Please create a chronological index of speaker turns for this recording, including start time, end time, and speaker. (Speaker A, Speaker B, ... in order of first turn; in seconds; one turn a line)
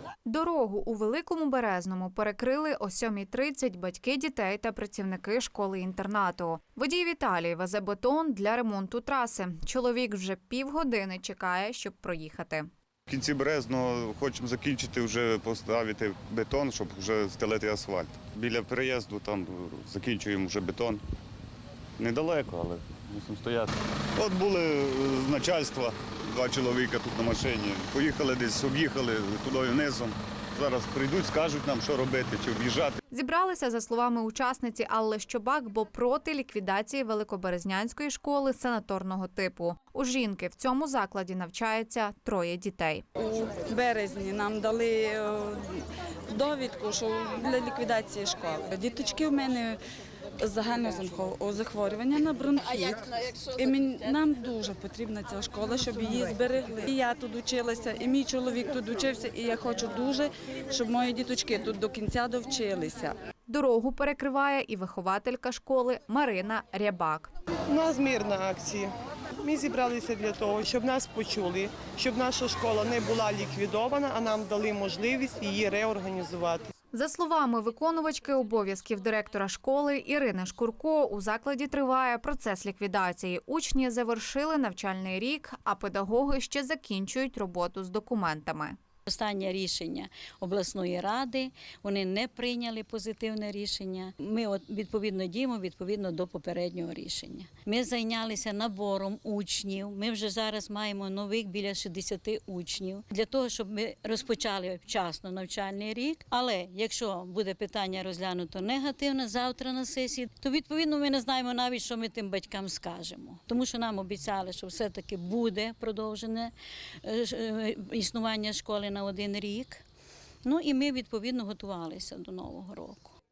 Speaker A: 0.3-12.7
Speaker B: 13.1-21.0
Speaker B: 22.0-32.9
Speaker A: 33.1-43.0
Speaker C: 43.2-49.8
Speaker C: 50.4-63.2
Speaker A: 63.5-67.3
Speaker D: 67.7-68.9
Speaker D: 69.4-76.7
Speaker A: 76.9-88.8
Speaker E: 89.1-116.5
Speaker E: 117.0-119.8
Speaker E: 120.4-123.2